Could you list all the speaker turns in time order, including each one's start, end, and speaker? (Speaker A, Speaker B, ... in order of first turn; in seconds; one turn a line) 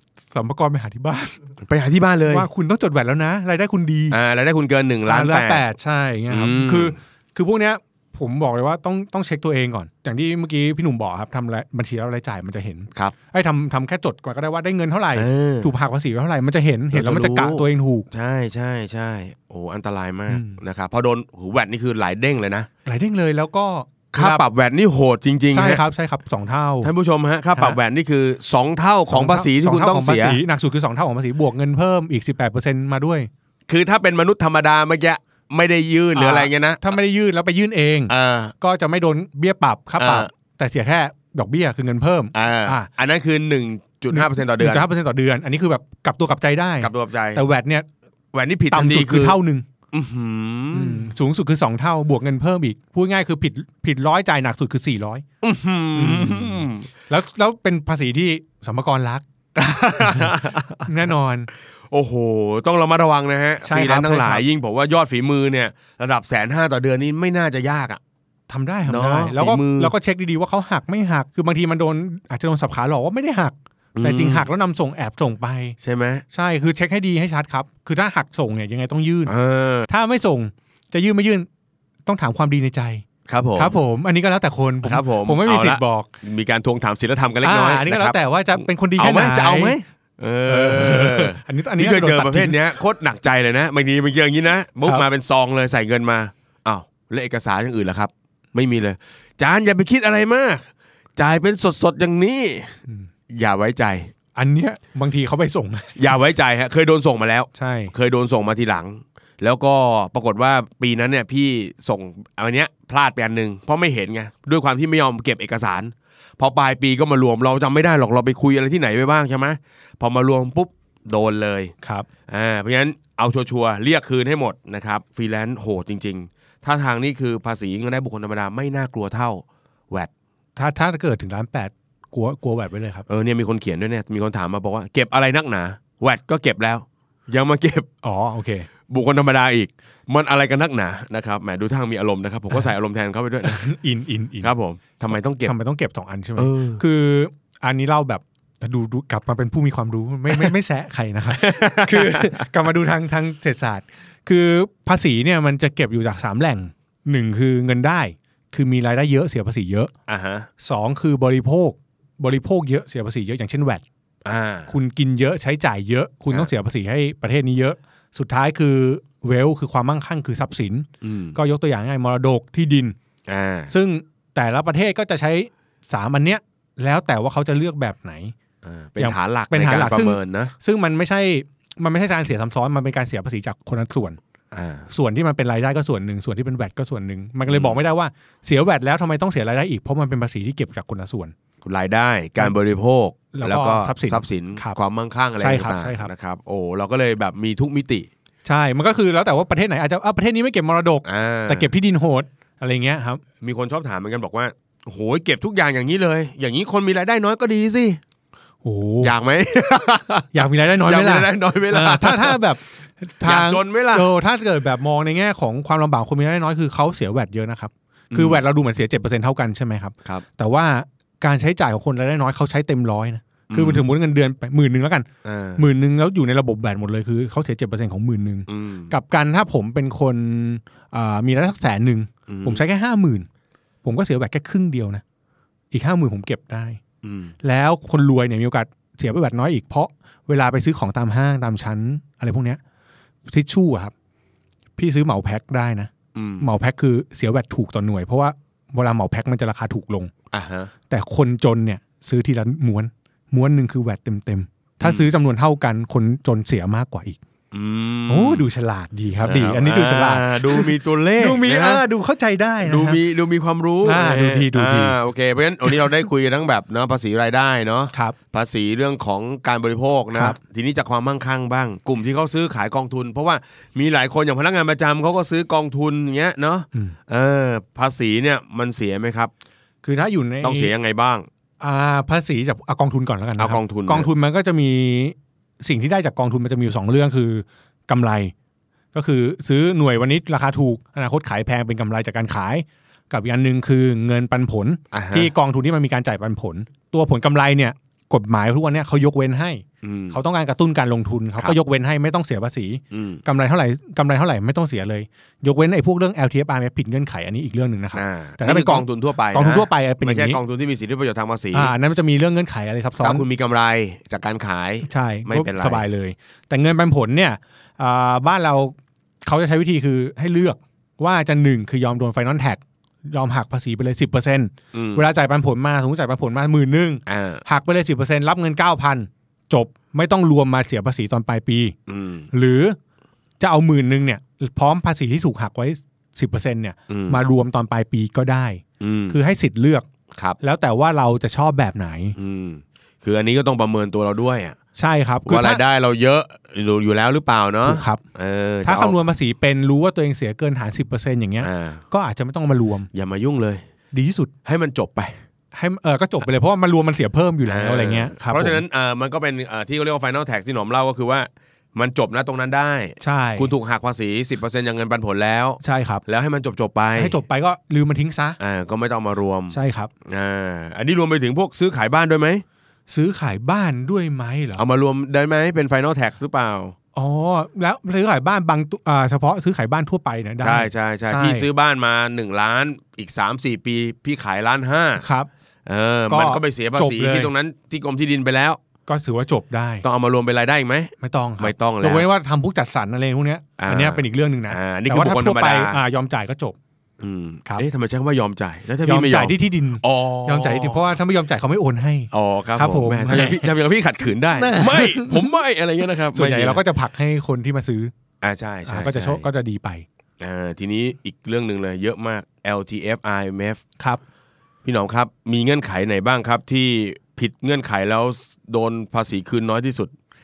Speaker A: 0.3-1.4
Speaker B: 1.6-2.5
Speaker A: 2.3-4.2
Speaker B: 4.1-5.7
Speaker A: 5.1-18.1
Speaker B: 6.3-7.0
Speaker B: 15.2-15.7
Speaker B: 16.9-22.7
Speaker A: 20.3-20.6
Speaker A: 22.9-24.4
Speaker B: 24.1-25.8
Speaker A: 25.5-26.9
Speaker B: 26.8-30.4
Speaker A: 29.1-33.3
Speaker B: 33.7-36.8
Speaker A: 36.1-42.9
Speaker B: 38.1-38.5
Speaker B: 40.0-40.3
Speaker B: 42.3-44.9
Speaker A: 44.1-47.9
Speaker B: 46.8-47.4
Speaker B: 48.3-49.4
Speaker A: 48.7-49.7
Speaker B: 49.9-51.1
Speaker A: 50.7-55.2
Speaker B: 55.4-56.9
Speaker A: 56.0-59.2
Speaker B: 59.5-60.9
Speaker A: 60.0-61.5
Speaker B: 61.9-68.0
Speaker A: 63.6-64.4
Speaker A: 68.5-75.8
Speaker B: 68.9-69.9
Speaker B: 74.0-74.5
Speaker B: 75.8-76.2
Speaker A: 76.3-79.3
Speaker B: 79.3-79.9
Speaker A: 79.9-81.5
Speaker A: 82.1-86.1
Speaker B: 83.3-83.8
Speaker B: 84.8-102.8
Speaker A: 87.4-89.8
Speaker A: 90.5-92.6
Speaker B: 103.3-104.1
Speaker A: 104.3-106.1
Speaker B: 106.0-121.7
Speaker A: 107.6-107.9
Speaker A: 121.8-122.1
Speaker B: 122.3-130.1
Speaker A: 130.6-133.1
Speaker B: 133.1-137.9
Speaker A: 138.0-138.7
Speaker B: 138.9-143.7
Speaker A: 143.4-144.5
Speaker B: 144.4-145.5
Speaker A: 145.4-159.9
Speaker B: 146.4-146.8
Speaker B: 151.3-152.5
Speaker B: 160.1-160.5
Speaker A: 160.6-163.8
Speaker B: 164.2-164.7
Speaker A: 164.7-172.9
Speaker B: 171.0-171.4
Speaker B: 173.3-173.7
Speaker A: 173.7-178.3
Speaker B: 178.6-180.5
Speaker A: 179.0-184.2
Speaker B: 184.5-184.9
Speaker A: 184.9-191.3
Speaker B: 187.5-187.8
Speaker B: 191.6-198.1
Speaker A: 193.3-194.8
Speaker A: 195.4-196.1
Speaker A: 198.4-203.2
Speaker B: 201.1-201.7
Speaker B: 203.4-208.0
Speaker A: 208.6-209.1
Speaker B: 209.0-212.4
Speaker A: 210.3-233.3
Speaker B: 213.2-214.1
Speaker B: 218.1-218.4
Speaker B: 223.5-223.8
Speaker B: 225.2-225.6
Speaker B: 228.5-228.9
Speaker B: 232.3-232.6
Speaker A: 233.8-235.0
Speaker A: 235.7-236.8
Speaker B: 237.0-237.3
Speaker A: 237.4-242.6
Speaker A: 243.3-243.9
Speaker A: 244.8-250.1
Speaker B: 246.2-246.5
Speaker B: 250.3-250.7
Speaker A: 250.9-257.2
Speaker B: 254.8-255.1
Speaker B: 257.5-258.5
Speaker A: 258.1-263.0
Speaker B: 259.2-261.8
Speaker B: 262.6-279.3
Speaker A: 263.8-265.0
Speaker A: 279.8-280.7
Speaker B: 280.4-281.3
Speaker A: 281.6-288.3
Speaker B: 283.4-284.1
Speaker A: 288.9-310.4
Speaker B: 294.9-295.3
Speaker B: 299.8-300.2
Speaker B: 302.9-303.2
Speaker B: 307.9-311.7
Speaker A: 311.5-313.3
Speaker B: 313.0-315.8
Speaker A: 314.8-331.8
Speaker B: 324.7-325.1
Speaker B: 327.1-327.4
Speaker B: 331.9-332.3
Speaker A: 332.3-332.8
Speaker A: 333.4-339.9
Speaker B: 336.9-337.2
Speaker B: 338.8-339.2
Speaker A: 340.4-342.2
Speaker B: 342.2-344.6
Speaker A: 344.8-345.6
Speaker B: 345.3-349.0
Speaker A: 347.6-348.0
Speaker A: 348.6-352.9
Speaker B: 351.4-351.8
Speaker B: 352.9-353.6
Speaker A: 353.9-354.3
Speaker B: 354.4-355.2
Speaker A: 355.5-358.6
Speaker B: 357.5-367.2
Speaker A: 363.0-363.5
Speaker A: 365.6-366.0
Speaker A: 367.0-368.4
Speaker B: 368.4-372.4
Speaker A: 369.5-369.9
Speaker A: 372.9-374.6
Speaker B: 374.6-376.8
Speaker A: 376.9-381.5
Speaker B: 380.4-385.0
Speaker A: 385.0-385.3
Speaker B: 385.7-388.6
Speaker A: 386.1-387.3
Speaker A: 388.9-389.9
Speaker B: 389.8-392.1
Speaker A: 391.0-396.6
Speaker B: 393.6-395.8
Speaker B: 397.0-400.8
Speaker A: 398.9-403.5
Speaker B: 402.1-406.6
Speaker A: 404.3-405.3
Speaker A: 406.1-407.9
Speaker B: 408.2-409.3
Speaker A: 408.7-409.9
Speaker B: 410.2-413.6
Speaker B: 414.6-419.9